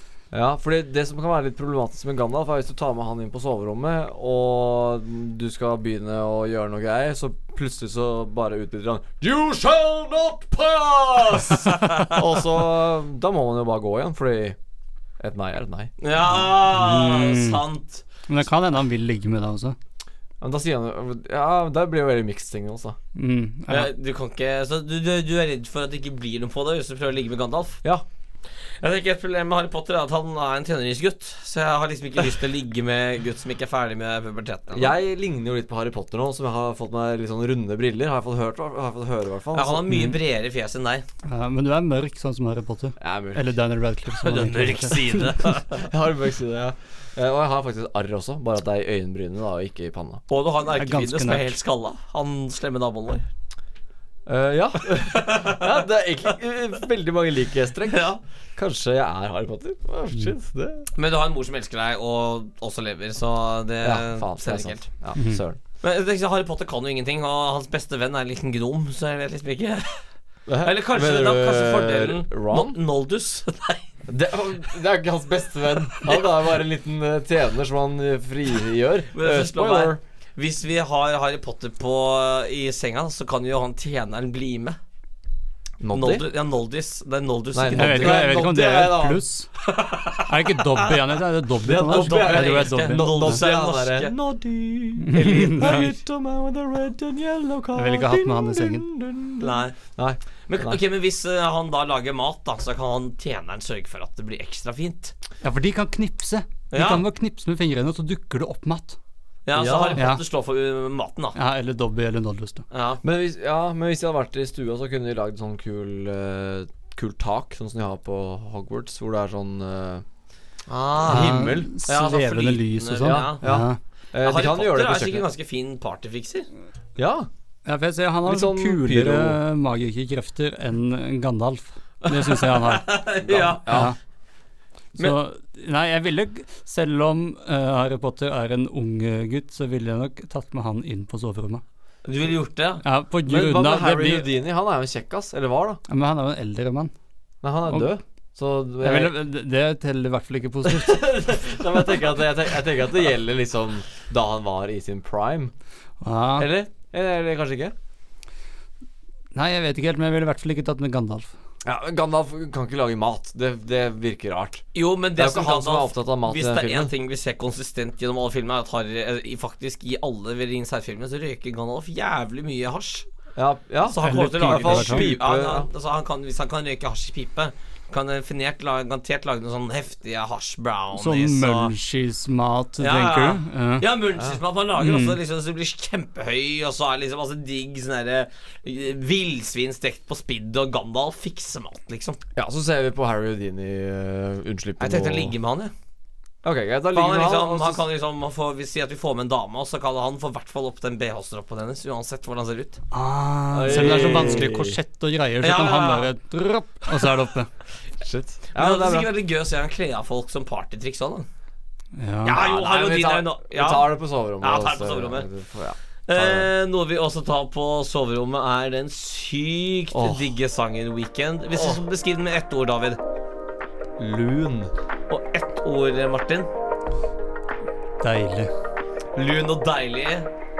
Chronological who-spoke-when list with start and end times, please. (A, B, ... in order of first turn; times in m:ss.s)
0:00.3-0:14.6 A
0:11.7-0:12.1 B
0:15.2-0:15.9 A
0:16.0-0:18.0 B
0:16.6-0:17.6 C
0:18.3-0:19.8 C
0:20.4-0:23.0 A
0:23.2-0:23.9 C
0:23.7-0:27.8 B
0:28.8-0:34.9 B
0:34.7-0:39.9 A
0:39.5-0:41.0 B
0:39.9-0:40.2 C
0:41.3-0:45.2 C
0:43.0-0:43.5 A
0:44.2-0:45.8 B
0:45.6-0:50.2 A
0:50.3-0:53.2 B
0:50.8-0:51.5 C
0:54.3-1:00.9 A
0:55.0-0:55.8 B
0:57.9-0:58.2 B
1:01.0-1:04.9 B
1:03.8-1:05.6 A
1:05.8-1:10.0 B
1:10.5-1:12.8 A
1:10.6-1:13.9 B
1:14.1-1:20.0 A
1:19.1-1:24.8 B
1:25.8-1:26.2 A
1:25.9-1:28.5 B
1:27.5-1:29.2 A
1:27.7-1:29.5 C
1:29.6-1:30.9 B
1:30.2-1:33.4 C
1:31.6-1:40.8 A
1:31.9-1:34.1 B
1:35.0-1:35.8 C
1:35.4-1:35.9 B
1:37.7-1:38.9 C
1:39.4-1:39.8 B
1:40.5-1:45.1 B
1:45.4-1:49.0 C
1:46.7-1:47.0 B
1:49.4-1:51.4 B
1:49.5-1:50.0 A
1:50.0-1:50.2 C
1:51.3-1:52.6 C
1:52.7-1:53.0 B
1:53.0-2:00.0 A
2:00.7-2:03.4 B
2:01.0-2:01.7 A
2:01.1-2:03.8 C
2:03.0-2:05.3 A
2:04.2-2:06.5 B
2:07.0-2:07.3 A
2:07.6-2:12.9 C
2:08.2-2:09.4 A
2:12.1-2:13.9 B
2:13.2-2:13.9 A
2:13.7-2:13.9 C
2:15.0-2:21.6 C
2:22.0-2:22.8 B
2:22.8-2:24.3 C
2:23.2-2:25.8 A
2:25.9-2:26.9 C
2:27.4-2:29.1 A
2:28.8-2:31.2 C
2:30.6-2:35.5 A
2:36.0-2:36.5 C
2:36.4-2:37.7 A
2:39.3-2:41.3 C
2:41.6-2:44.6 A
2:44.7-2:53.0 B
2:45.2-2:46.9 A
2:53.4-2:55.7 A
2:53.9-3:01.7 B
2:54.0-2:55.1 C
3:00.9-3:03.8 C
3:02.8-3:12.2 B
3:04.8-3:05.2 C
3:12.4-3:15.3 A
3:14.8-3:15.7 B
3:16.4-3:17.8 A
3:16.9-3:22.8 B
3:22.9-3:27.5 C
3:23.5-3:24.8 A
3:23.7-3:24.4 B
3:25.4-3:26.1 B
3:28.0-3:29.1 A
3:28.5-3:31.3 B
3:32.0-3:32.4 C
3:32.2-3:35.2 B
3:32.3-3:36.5 A
3:36.1-3:43.0 B
3:39.9-3:40.3 A
3:41.5-3:41.8 A
3:44.0-3:44.7 A
3:45.1-3:46.5 B
3:48.0-3:48.5 C
3:49.1-3:50.3 B